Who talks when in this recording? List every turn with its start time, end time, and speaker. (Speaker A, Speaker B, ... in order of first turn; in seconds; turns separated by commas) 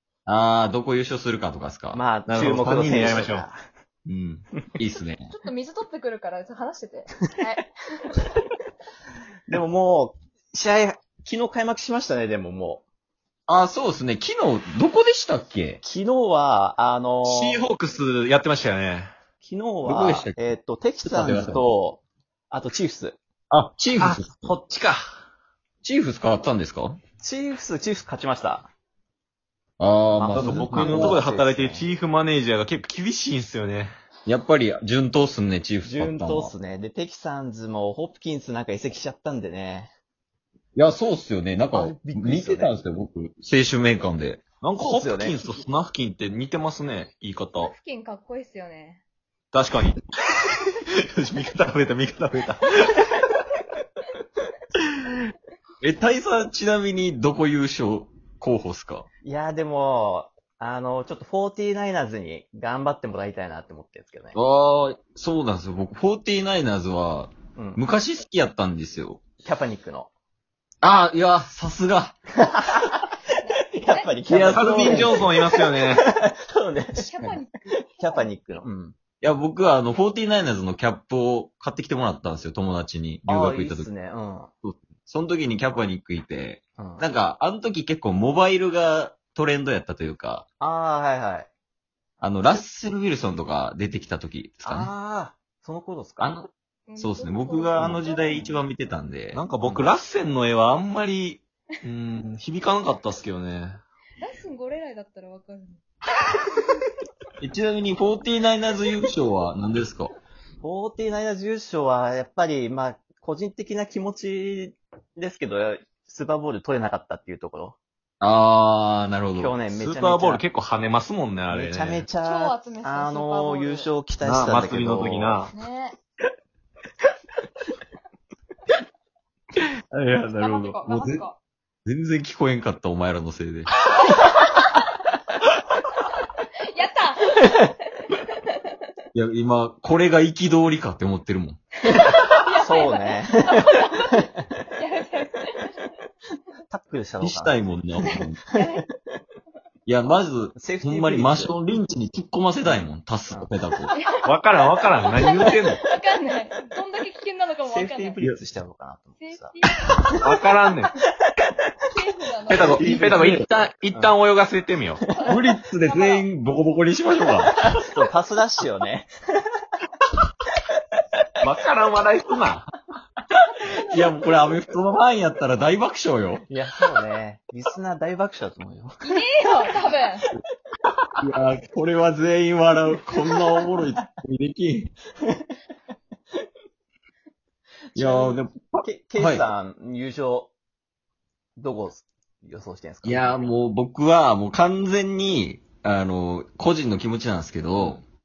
Speaker A: 0.3-2.0, Speaker B: 1.9-3.6, Speaker C: 2.3-3.5, Speaker C: 4.1-4.4, Speaker A: 4.8-5.3, Speaker D: 5.3-8.2, Speaker B: 9.5-12.8, Speaker A: 13.5-15.8, Speaker B: 15.8-17.6, Speaker C: 17.2-19.1, Speaker B: 19.4-23.2, Speaker A: 19.9-20.4, Speaker A: 21.1-21.6, Speaker A: 23.5-24.3, Speaker C: 24.0-25.1, Speaker A: 25.8-27.0, Speaker B: 27.2-28.7, Speaker A: 29.8-31.2, Speaker B: 30.2-31.9, Speaker C: 30.4-33.9, Speaker A: 34.3-36.5, Speaker B: 35.8-39.9, Speaker A: 40.8-44.4, Speaker B: 41.7-42.7, Speaker C: 44.6-47.7, Speaker B: 44.8-45.4, Speaker D: 47.6-49.0, Speaker C: 49.5-53.0, Speaker A: 55.8-59.1, Speaker B: 59.2-64.4, Speaker A: 64.3-69.2, Speaker B: 67.5-67.8, Speaker B: 69.4-70.1, Speaker A: 70.8-72.2, Speaker B: 72.4-73.1, Speaker D: 73.4-74.2, Speaker B: 73.7-77.1, Speaker A: 74.3-75.2, Speaker C: 74.5-76.0, Speaker D: 76.9-78.3, Speaker B: 78.0-79.0, Speaker A: 79.2-83.9, Speaker B: 83.3-84.5, Speaker A: 84.6-90.5, Speaker B: 86.8-87.0, Speaker B: 90.6-91.5, Speaker A: 92.2-94.9, Speaker B: 94.7-96.4, Speaker A: 96.2-99.8, Speaker D: 96.9-98.5, Speaker C: 99.3-103.8, Speaker D: 104.2-105.8, Speaker A: 107.4-110.1, Speaker B: 110.6-117.8, Speaker A: 118.2-119.5, Speaker B: 119.4-120.4, Speaker C: 119.7-122.0, Speaker B: 121.5-125.5, Speaker D: 122.2-123.9, Speaker C: 124.2-125.5, Speaker D: 125.5-126.0, Speaker A: 129.9-131.2, Speaker D: 130.4-131.4, Speaker A: 131.8-133.7, Speaker D: 134.0-134.7, Speaker D: 136.7-138.6, Speaker A: 139.1-141.6, Speaker D: 141.8-145.8, Speaker B: 142.6-144.1, Speaker B: 146.7-147.6, Speaker A: 147.2-148.4, Speaker D: 148.5-148.8, Speaker B: 148.6-148.8, Speaker A: 149.9-153.9, Speaker B: 150.6-151.5, Speaker B: 152.6-153.5, Speaker C: 154.2-155.8, Speaker D: 155.1-158.2, Speaker B: 157.7-159.6, Speaker D: 159.2-160.1, Speaker C: 160.2-160.9, Speaker D: 161.9-162.9, Speaker C: 162.5-165.0, Speaker B: 162.5-163.4, Speaker A: 162.8-163.5, Speaker B: 165.0-165.3, Speaker A: 165.3-167.6, Speaker D: 165.8-166.2, Speaker B: 167.6-169.5, Speaker C: 171.4-172.7, Speaker D: 173.6-174.1, Speaker A: 173.9-176.5, Speaker B: 176.5-179.2, Speaker D: 179.0-180.3, Speaker A: 181.2-184.9, Speaker B: 187.9-190.5, Speaker A: 188.0-189.5, Speaker B: 191.6-193.5, Speaker A: 193.0-198.0, Speaker B: 197.8-198.0